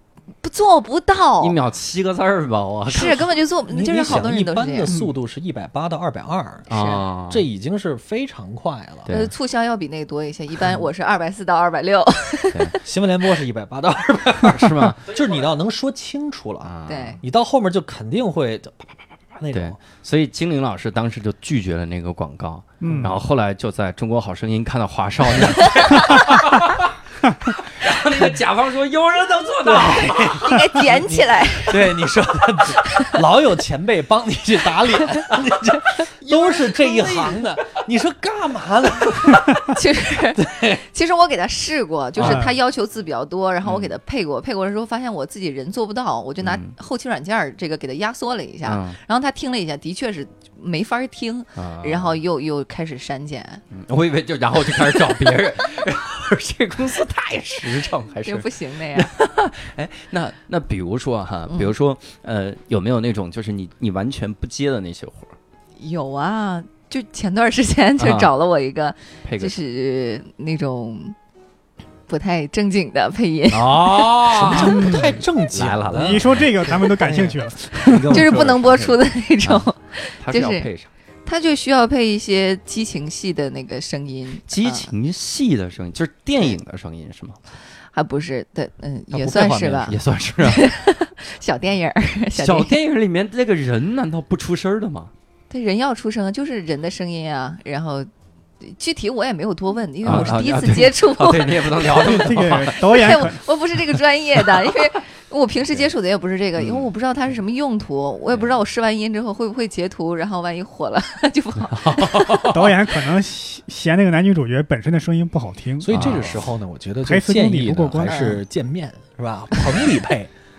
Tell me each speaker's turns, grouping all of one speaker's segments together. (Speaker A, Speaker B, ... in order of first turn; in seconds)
Speaker A: 0.4-1.6, 2.9-4.9, 6.7-7.0, 9.1-12.8, 16.9-17.2, 30.3-32.0, 32.7-33.2, 36.3-37.4, 39.6-53.6, 58.2-59.1, 65.8-71.2, 72.1-74.1, 78.1-80.7, 81.3-84.9, 87.9-92.8, 95.5-98.1, 98.6-112.4, 118.0-118.4
Speaker B: 1.4-3.3, 6.7-7.4, 9.1-9.3, 14.4-15.1, 16.6-17.2, 19.5-26.9, 27.5-30.8, 43.6-43.9, 46.4-46.7, 48.6-49.0, 51.6-52.2, 53.7-65.4, 68.0-68.3, 69.2-69.5, 73.5-76.5, 77.9-79.7, 80.2-80.9, 84.5-87.4, 89.9-90.7, 92.4-95.1, 100.0-103.2, 106.6-106.9, 111.7-112.8, 115.9-116.5
Speaker C: 3.7-6.7, 7.3-9.1, 12.8-19.8, 22.8-23.1, 29.7-39.7, 40.4-40.8, 74.3-78.7, 89.1-90.0, 115.8-120.3
Speaker D: 22.8-23.1, 42.2-42.6, 74.6-75.1, 75.9-78.1, 102.0-103.4, 112.5-116.2, 117.0-118.2